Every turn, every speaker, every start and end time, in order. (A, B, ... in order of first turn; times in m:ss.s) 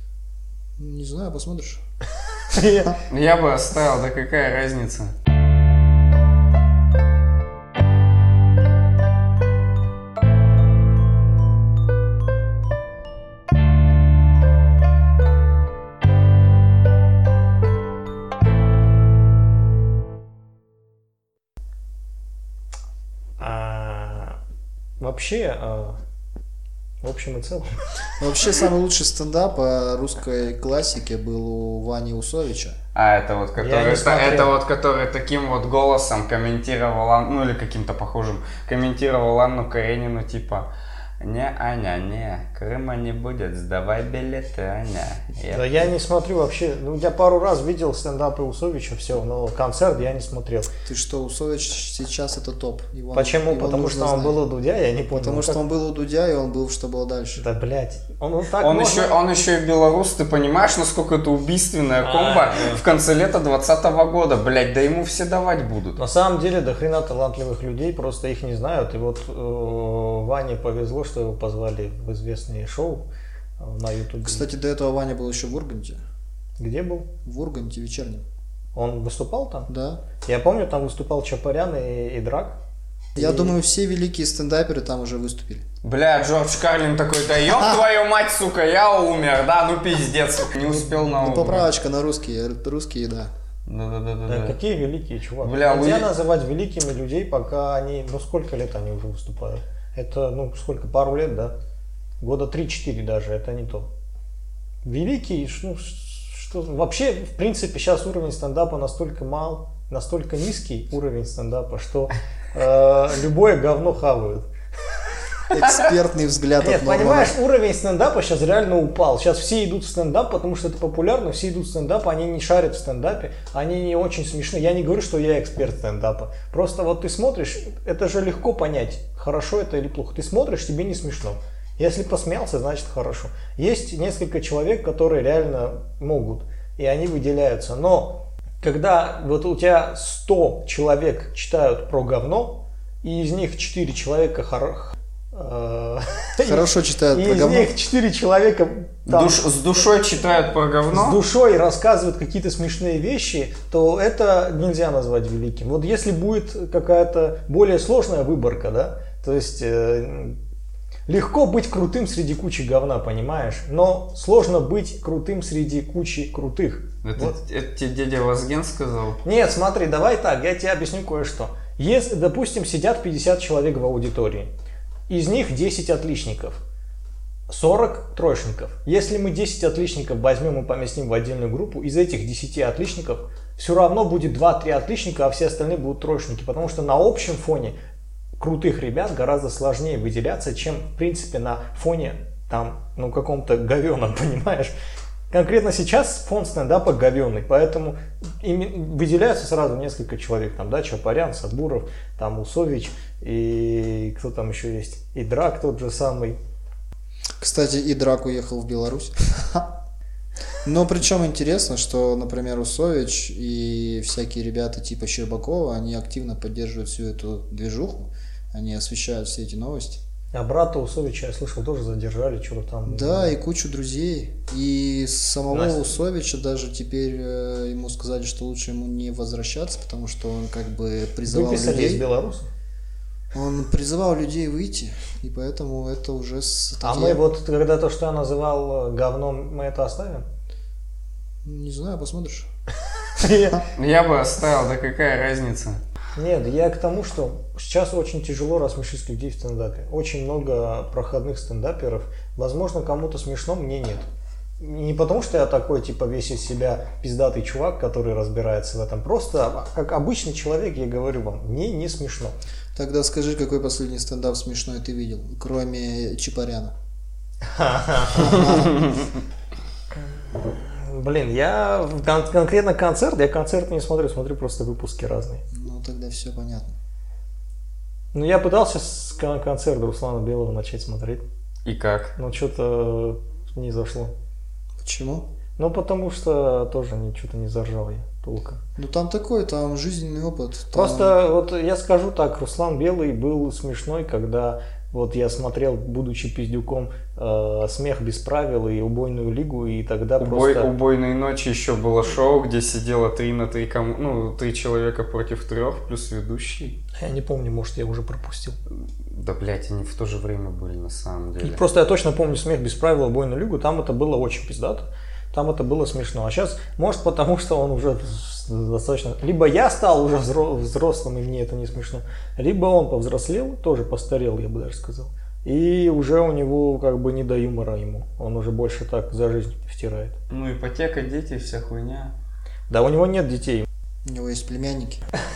0:00.8-0:01.8 A
0:02.5-0:03.0 B
0:03.1-0:05.1 C
0:23.4-0:24.4 B
0:25.0-0:26.0 B
0:27.0-0:27.7 B
0:28.2-0:32.8 A
0:32.9-0:40.7 C
0:33.6-0:34.5 B
0:41.2-0:45.9 C
0:45.5-0:50.7 B
0:50.8-0:54.4 A
0:53.1-0:55.6 B
0:55.1-0:57.4 A
0:57.4-0:59.2 B
0:58.6-1:06.0 C
1:02.0-1:02.8 B
1:06.0-1:14.4 B
1:14.2-1:16.0 A
1:16.6-1:17.1 B
1:17.2-1:18.2 A
1:18.7-1:19.7 B
1:19.7-1:20.1 A
1:20.2-1:22.6 B
1:23.1-1:23.6 B
1:23.2-1:25.6 A
1:25.8-1:31.7 C
1:30.7-1:31.0 B
1:31.1-1:33.3 A
1:33.7-1:34.6 C
1:34.3-1:41.6 B
1:35.4-1:36.1 C
1:42.2-1:43.9 B
1:44.8-1:54.4 B
1:55.5-1:57.4 A
1:56.6-2:29.4 B
2:26.4-2:27.7 A
2:29.0-2:31.2 C
2:30.9-2:40.4 B
2:41.1-2:47.3 B
2:47.0-2:49.2 C
2:49.2-2:54.5 B
2:55.1-2:56.6 B
2:57.5-3:07.8 B
3:08.4-3:14.8 B
3:15.3-3:26.4 B
3:27.4-3:29.7 A
3:30.6-3:40.0 A
3:40.3-3:43.4 B
3:42.8-3:52.0 A
3:45.5-3:45.8 B
3:51.2-3:52.5 B
3:53.3-3:57.2 A
3:56.8-4:00.3 B
4:01.4-4:02.5 A
4:03.2-4:03.6 B
4:03.7-4:05.8 C
4:06.1-4:14.1 B
4:14.6-4:22.4 B
4:22.8-4:26.7 A
4:27.5-4:28.7 B
4:30.0-4:35.4 B
4:35.5-4:36.7 A
4:38.1-4:41.2 B
4:41.6-4:42.1 C
4:42.2-4:44.1 B
4:44.8-4:45.2 A
4:45.6-4:48.6 B
4:48.8-4:51.1 A
4:50.7-5:00.7 B
5:00.2-5:06.8 C
5:07.0-5:08.6 B
5:09.1-5:11.6 C
5:11.4-5:30.2 B
5:30.3-5:32.1 C
5:32.7-5:33.6 B
5:34.0-5:35.0 A